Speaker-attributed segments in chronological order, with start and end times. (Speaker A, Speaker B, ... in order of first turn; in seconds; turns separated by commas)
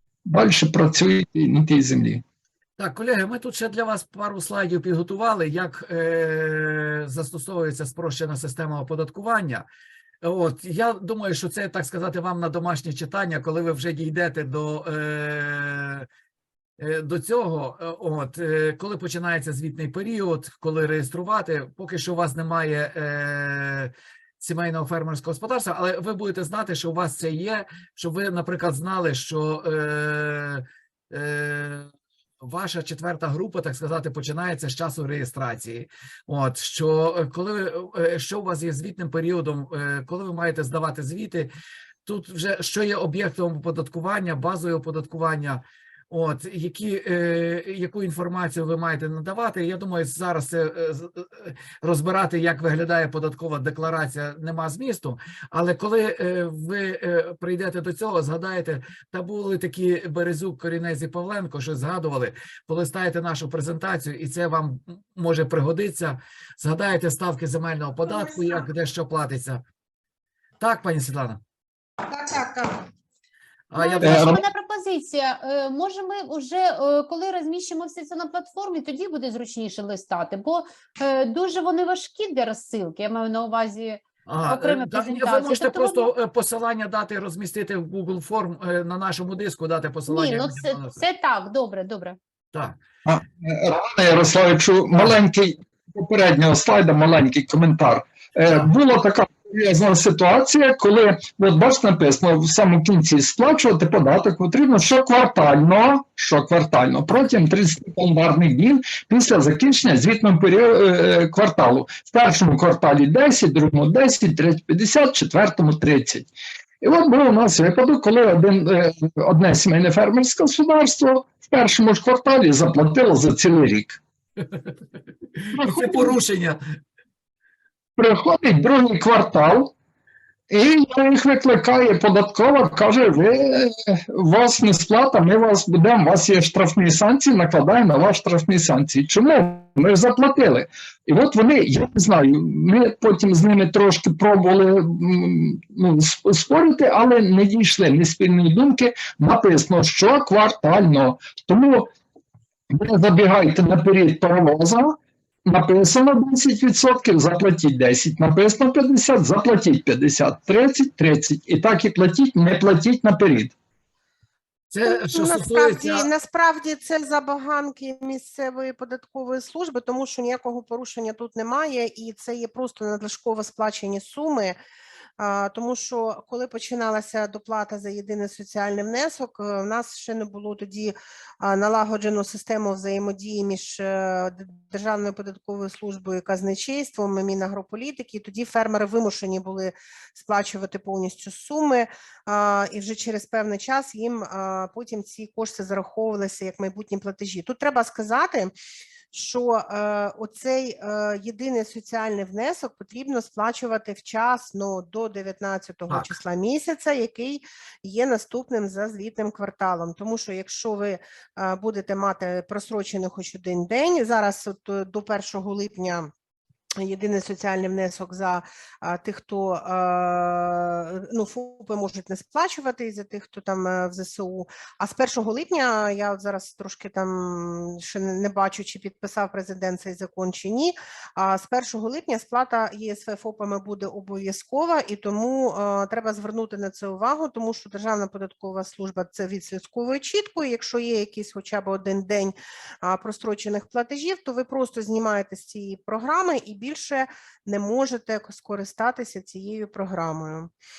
Speaker A: 0.2-2.2, Speaker B: 2.8-9.7, Speaker B: 10.2-16.1, Speaker B: 16.8-31.9, Speaker B: 32.4-41.5, Speaker B: 42.0-69.6, Speaker C: 68.1-68.7, Speaker B: 70.6-71.4, Speaker C: 72.1-72.9, Speaker B: 73.7-74.4, Speaker D: 73.8-86.1, Speaker A: 74.0-74.4, Speaker B: 84.3-91.0, Speaker D: 90.1-92.2, Speaker A: 93.0-124.0, Speaker B: 125.4-126.6, Speaker A: 125.5-126.1, Speaker A: 128.0-129.7, Speaker A: 130.5-151.9, Speaker A: 152.7-163.5, Speaker B: 164.7-166.1, Speaker C: 164.8-174.6, Speaker C: 175.2-198.5, Speaker C: 199.1-216.1, Speaker B: 205.9-206.1, Speaker C: 216.8-250.5